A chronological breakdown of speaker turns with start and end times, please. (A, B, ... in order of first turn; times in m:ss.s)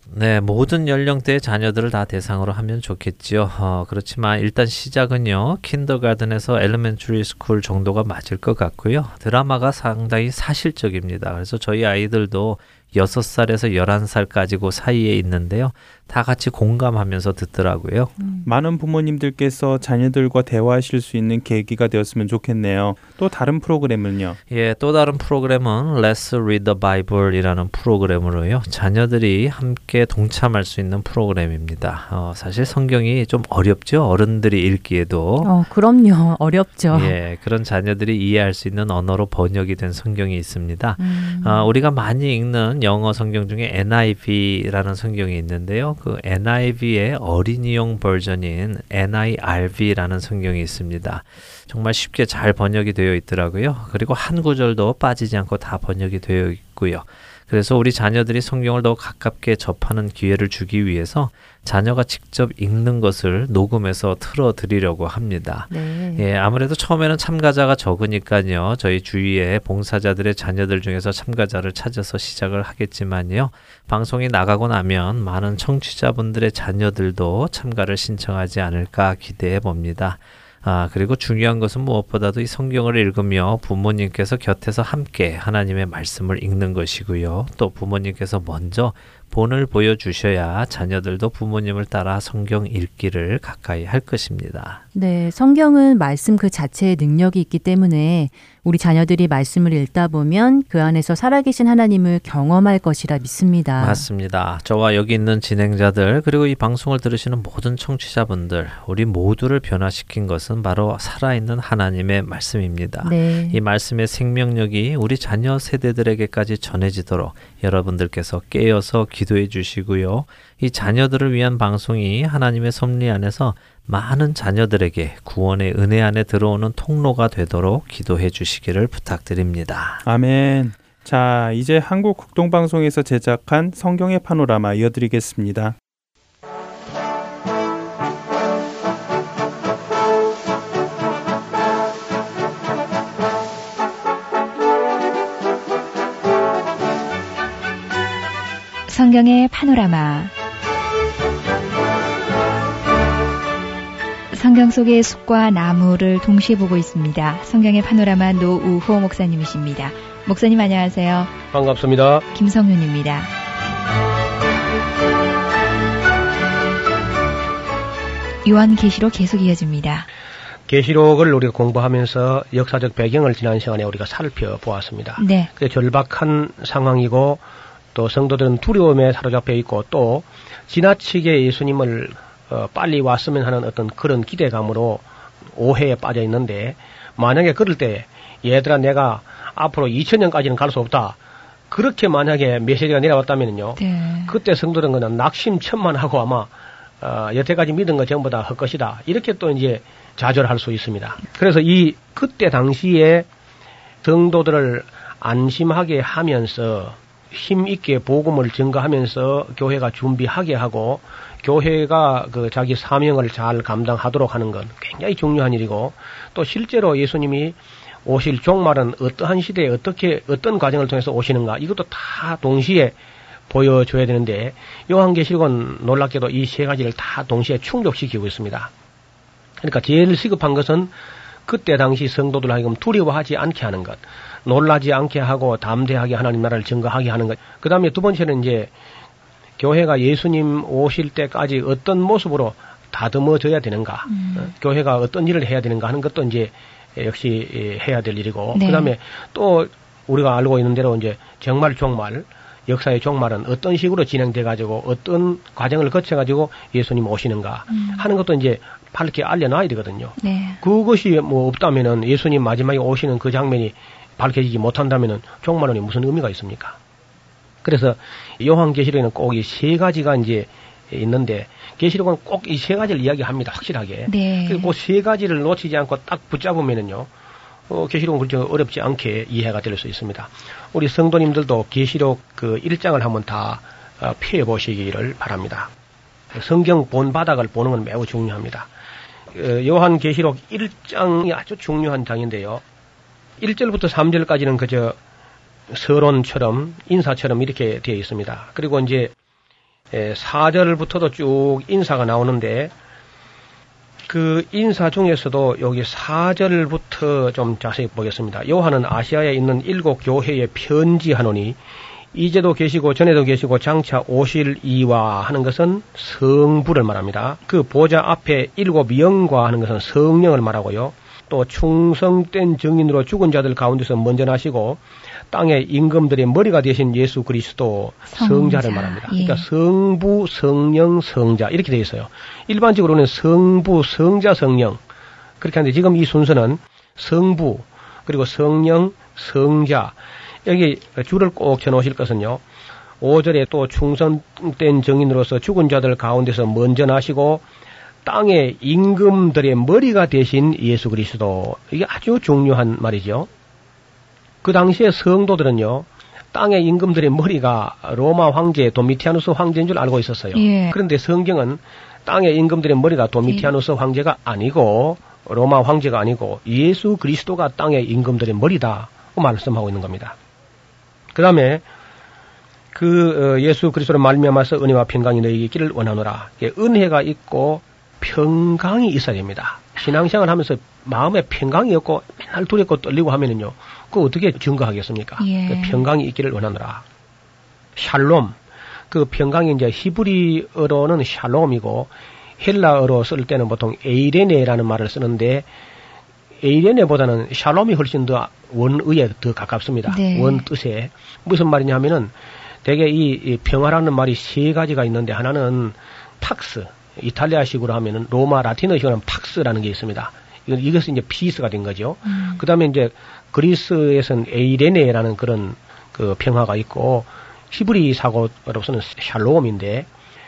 0:00.1-0:18.2 A
0:18.2-0:18.5 B
0:18.4-0:24.4 C
0:24.5-0:35.5 A
0:35.4-0:37.2 B
0:36.9-1:34.8 A
0:41.0-0:41.7 B
1:05.7-1:06.2 B
1:34.9-1:44.0 B
1:43.8-2:10.0 A
1:53.0-1:53.6 B
2:10.0-2:15.8 C
2:28.9-2:30.3 D
2:34.3-2:41.4 D
2:41.5-2:42.3 E
2:42.3-2:43.3 D
2:48.4-2:50.1 D
2:50.7-2:57.4 E
2:55.2-2:55.5 D
2:57.9-3:11.2 E
3:11.7-3:23.3 E
3:13.8-3:14.4 D
3:24.0-3:43.0 E
3:43.5-3:48.7 E
3:49.6-3:50.9 E
3:51.5-3:58.7 E
3:59.6-4:26.8 E
4:04.1-4:04.5 D
4:08.5-4:08.9 D
4:17.7-4:18.1 D
4:20.2-4:20.6 D
4:27.6-4:37.1 E
4:34.1-4:34.7 D
4:37.7-4:45.7 E
4:46.3-4:48.7 E
4:49.3-4:52.6 E
4:53.4-4:55.0 E
4:55.7-4:59.1 E
4:59.9-5:02.7 E
5:04.1-5:11.6 E
5:12.1-5:34.8 E
5:28.1-5:29.5 D
5:35.4-5:42.4 E
5:43.0-5:47.4 E
5:48.0-5:53.3 E
5:54.4-6:10.2 E
6:00.3-6:00.8 D
6:03.2-6:03.5 D
6:11.2-6:11.6 E
6:12.7-6:26.8 E
6:25.2-6:25.9 D
6:27.8-6:28.4 E
6:28.9-6:35.5 E
6:36.4-6:42.1 E
6:39.9-6:40.5 D
6:42.6-6:59.9 E
6:52.1-6:52.4 D